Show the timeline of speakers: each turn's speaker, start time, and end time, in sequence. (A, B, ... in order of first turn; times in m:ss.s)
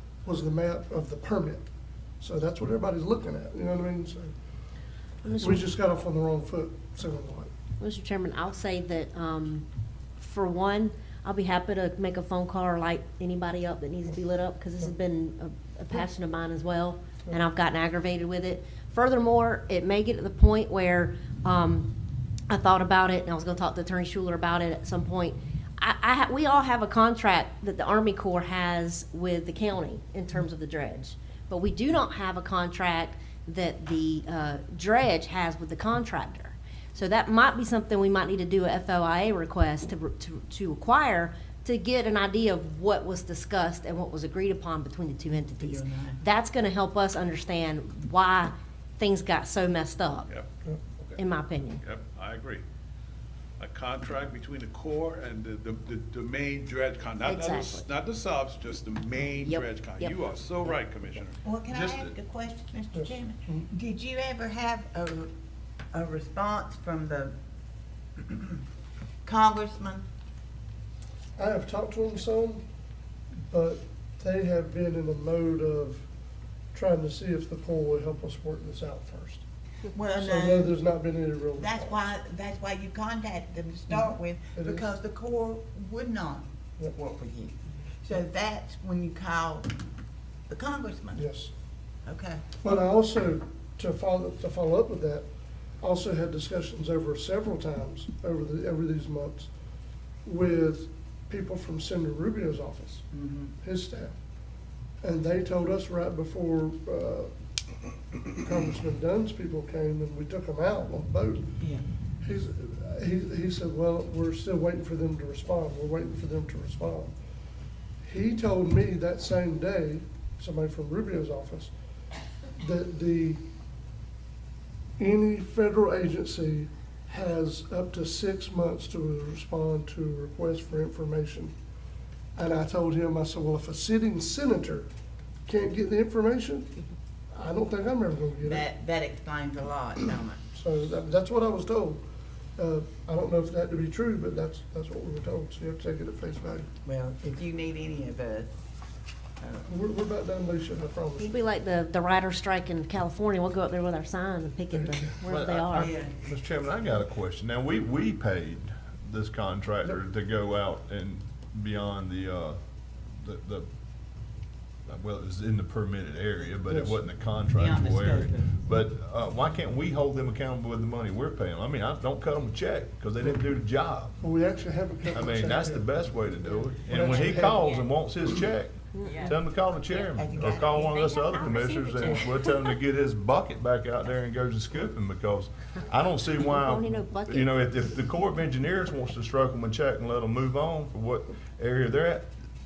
0:00.2-0:01.7 A
0:02.2-0:04.3 A
0:05.2-0:05.7 B
0:05.4-0:07.5 A
0:07.8-0:09.6 B
0:10.2-0:21.9 B
0:22.5-0:50.3 B
0:45.5-0:46.2 C
0:51.2-0:51.8 B
0:51.8-0:52.6 D
0:53.6-1:02.2 D
0:57.2-0:57.8 B
0:59.4-1:00.1 B
1:01.4-1:05.3 C
1:02.9-1:03.7 A
1:05.9-1:07.3 C
1:08.2-1:08.6 C
1:09.2-1:10.0 C
1:11.4-1:12.6 A
1:13.5-1:16.0 A
1:16.7-1:19.4 A
1:19.9-1:20.7 C
1:20.2-1:22.0 A
1:21.6-1:29.7 C
1:23.9-1:24.9 A
1:30.5-1:31.2 C
1:31.1-1:31.5 A
1:32.0-1:32.4 C
1:32.6-1:35.3 A
1:35.8-1:39.5 A
1:40.2-1:43.0 A
1:43.1-1:43.5 C
1:43.6-1:44.2 A
1:45.0-1:47.3 A
1:48.3-1:51.5 A
1:52.2-1:57.1 A
1:58.0-2:01.7 A
2:02.6-2:03.4 A
2:05.0-2:11.5 A
2:12.4-2:14.9 A
2:15.5-2:16.7 A
2:17.3-2:18.7 A
2:18.4-2:20.4 C
2:20.5-2:22.0 A
2:22.6-2:26.7 A
2:26.8-2:28.5 C
2:29.6-2:31.4 A
2:31.2-2:35.9 B
2:34.7-2:35.1 A
2:35.2-2:43.7 E
2:35.7-2:36.1 C
2:44.9-2:54.2 E
2:46.7-2:47.0 A
2:47.5-2:48.6 C
2:54.2-2:55.9 A
2:55.1-3:12.3 E
2:56.9-2:57.6 A
2:56.9-2:57.9 C
2:58.9-2:59.3 B
2:59.0-3:01.0 C
3:00.7-3:02.6 B
3:06.5-3:07.5 B